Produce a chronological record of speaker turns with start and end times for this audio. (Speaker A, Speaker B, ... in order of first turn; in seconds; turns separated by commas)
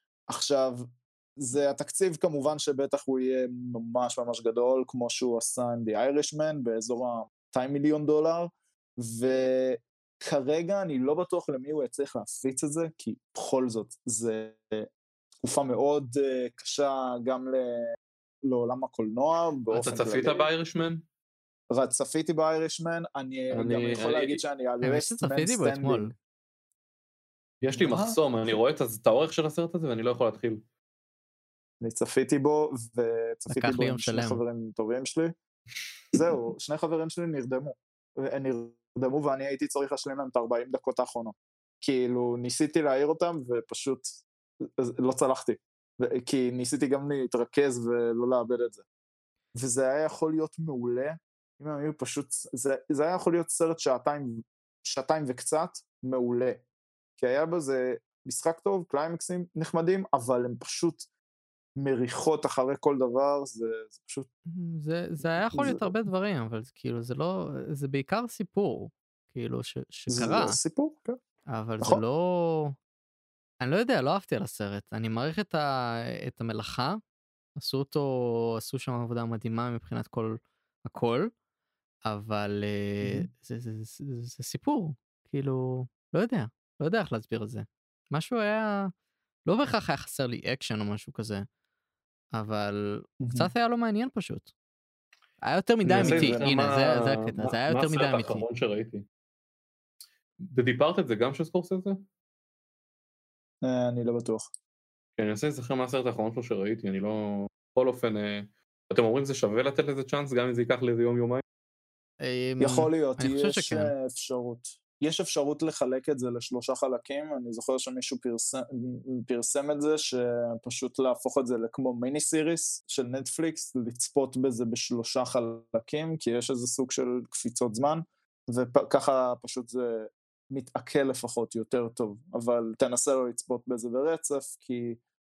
Speaker A: 0.3-20.5, Speaker B: 19.7-21.0, Speaker A: 21.7-26.1, Speaker B: 23.5-24.4, Speaker C: 24.8-26.1, Speaker B: 27.6-30.6, Speaker A: 27.8-28.2, Speaker A: 31.8-35.3, Speaker C: 33.5-34.4, Speaker A: 36.1-44.1, Speaker A: 44.6-48.8, Speaker A: 49.5-56.6, Speaker A: 57.2-61.0, Speaker A: 61.8-64.3, Speaker C: 64.5-70.6, Speaker A: 65.3-65.9, Speaker A: 70.1-71.2, Speaker C: 71.5-72.8, Speaker C: 73.6-77.0, Speaker C: 77.5-81.3, Speaker C: 82.0-88.9, Speaker A: 83.0-83.3, Speaker C: 89.5-91.5, Speaker C: 92.3-94.5, Speaker A: 93.2-93.5, Speaker C: 95.4-98.4, Speaker B: 95.8-99.0, Speaker A: 95.9-96.5, Speaker B: 100.4-102.0, Speaker A: 103.6-104.5, Speaker B: 105.2-111.4, Speaker C: 112.2-113.9, Speaker A: 112.6-135.0